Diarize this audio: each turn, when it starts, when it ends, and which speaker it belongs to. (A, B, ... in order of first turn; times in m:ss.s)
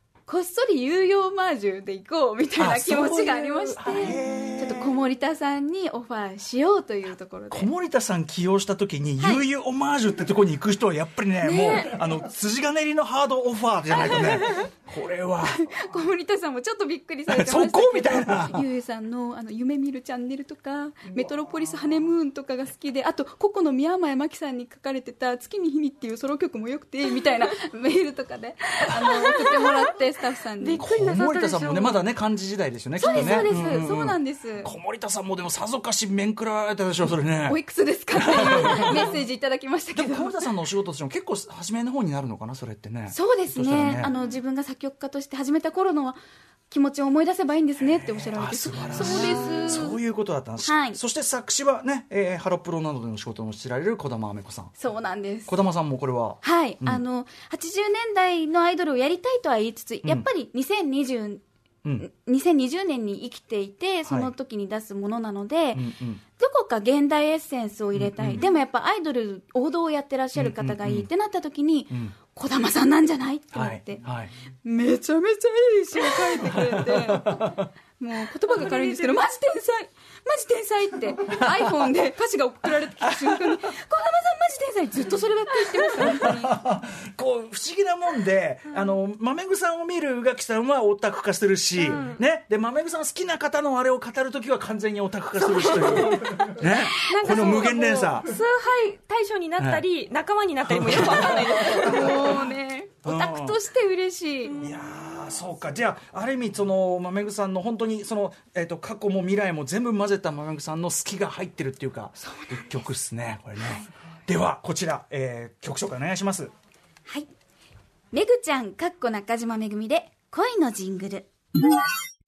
0:00.2-0:07.7 A
0:02.6-0:05.0 B
0:07.5-0:15.6 B
0:09.2-0:09.4 A
0:11.4-0:12.0 C
0:15.4-0:30.8 A
0:17.3-0:18.6 B
0:29.1-0:29.7 C
0:30.6-0:32.0 C
0:30.8-0:37.6 B
0:33.0-0:34.7 A
0:33.1-0:33.8 C
0:37.5-0:40.5 A
0:38.1-0:39.1 B
0:39.9-0:44.1 B
0:43.1-0:46.2 A
0:46.7-0:50.0 A
0:48.0-0:54.8 B
0:48.9-0:49.9 C
0:50.6-0:51.0 A
0:54.8-0:55.5 A
0:55.5-0:57.0 B
0:56.4-1:01.4 A
1:02.0-1:14.0 A
1:04.0-1:04.3 B
1:05.7-1:06.2 B
1:07.9-1:08.4 B
1:10.3-1:11.1 B
1:11.9-1:12.2 B
1:13.5-1:14.3 B
1:14.6-1:26.6 A
1:16.3-1:17.6 B
1:23.0-1:23.7 B
1:25.9-1:38.3 B
1:31.8-1:32.2 C
1:35.6-1:42.2 C
1:39.6-1:39.8 B
1:40.6-1:42.3 B
1:41.5-1:44.6 A
1:43.0-1:43.6 B
1:44.6-1:56.5 B
1:53.6-1:53.9 A
1:58.1-2:01.3 A